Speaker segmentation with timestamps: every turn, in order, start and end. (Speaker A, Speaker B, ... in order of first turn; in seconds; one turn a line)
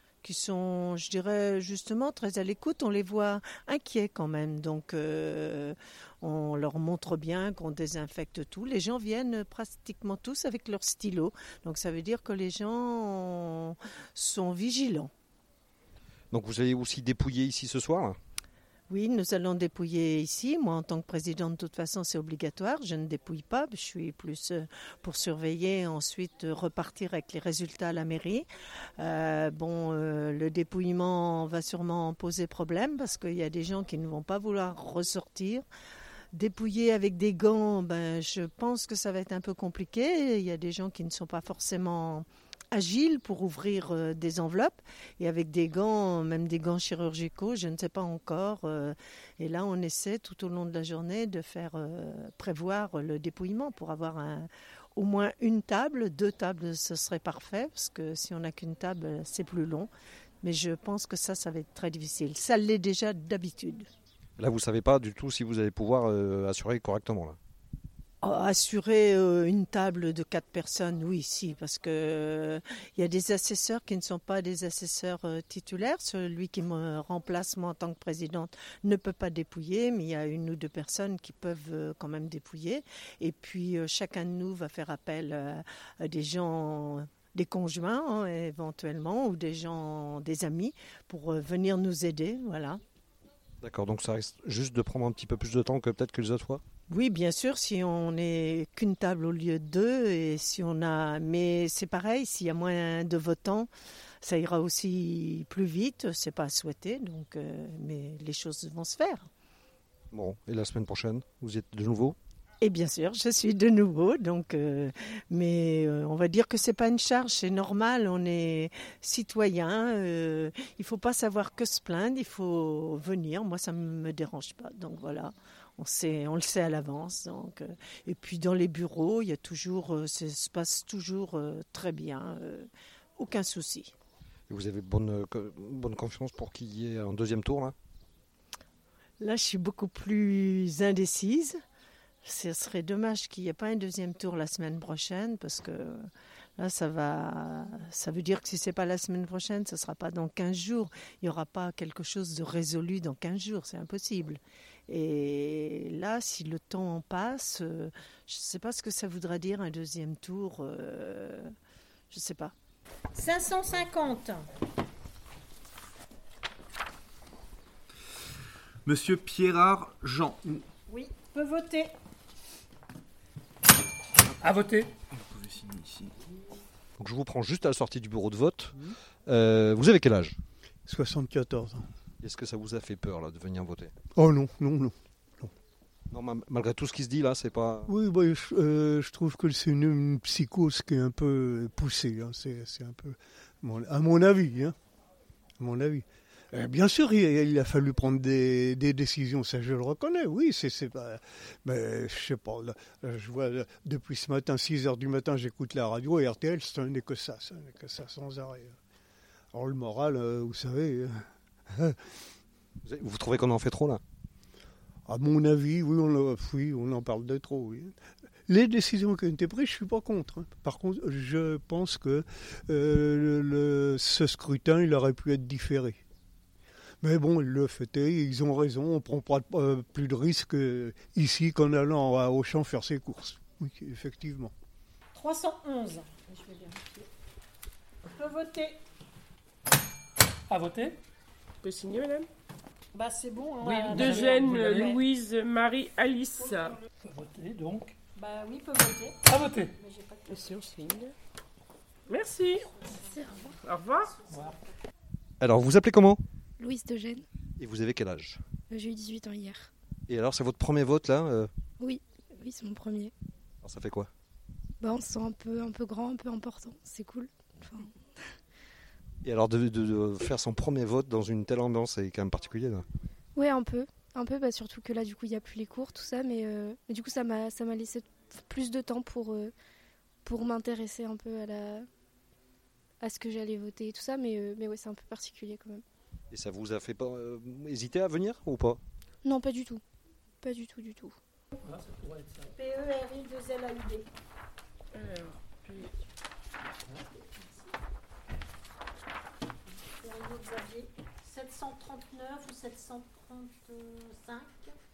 Speaker A: 0.2-15.1
Speaker B: 16.3-18.2
Speaker A: 18.9-28.5
Speaker A: 29.0-35.7
Speaker A: 36.3-59.9
Speaker A: 60.4-63.9
Speaker B: 64.4-67.4
Speaker A: 68.2-92.8
Speaker B: 93.6-96.6
Speaker A: 96.9-103.7
Speaker A: 104.2-109.3
Speaker B: 110.1-112.2
Speaker A: 112.6-133.9
Speaker B: 134.5-137.8
Speaker A: 139.2-141.6
Speaker A: 142.2-146.1
Speaker A: 146.6-161.5
Speaker A: 162.1-162.5
Speaker C: 163.2-164.5
Speaker D: 168.9-170.3
Speaker C: 170.9-171.9
Speaker E: 174.4-174.9
Speaker D: 175.4-176.1
Speaker B: 177.0-180.4
Speaker F: 180.9-181.9
Speaker B: 182.2-183.9
Speaker F: 184.2-185.5
Speaker B: 186.1-187.9
Speaker F: 187.9-194.8
Speaker F: 195.6-208.8
Speaker F: 209.5-212.0
Speaker B: 212.8-214.0
Speaker F: 215.1-217.9
Speaker F: 218.5-226.0
Speaker F: 227.0-234.5
Speaker C: 235.1-237.1
Speaker C: 238.2-238.8
Speaker E: 240.5-241.0
Speaker G: 241.6-242.3
Speaker C: 242.9-245.0
Speaker E: 243.7-244.9
Speaker G: 243.9-246.8
Speaker E: 247.0-247.9
Speaker C: 248.2-250.5
Speaker E: 249.3-249.7
Speaker G: 250.3-251.1
Speaker G: 252.1-252.7
Speaker H: 253.1-253.6
Speaker G: 253.6-254.2
Speaker C: 254.1-254.6
Speaker B: 255.4-256.2
Speaker H: 256.6-257.2
Speaker B: 257.6-258.4
Speaker H: 258.7-259.7
Speaker B: 260.1-261.5
Speaker H: 261.8-263.1
Speaker B: 263.6-264.1
Speaker H: 264.8-268.2
Speaker B: 269.2-272.9
Speaker H: 273.4-279.5
Speaker H: 280.2-281.9
Speaker H: 283.0-285.8
Speaker B: 286.3-288.8
Speaker H: 289.2-289.8
Speaker H: 290.4-291.2
Speaker E: 291.6-292.5
Speaker C: 292.6-294.1
Speaker G: 294.9-295.9
Speaker C: 297.0-297.7
Speaker C: 299.7-304.7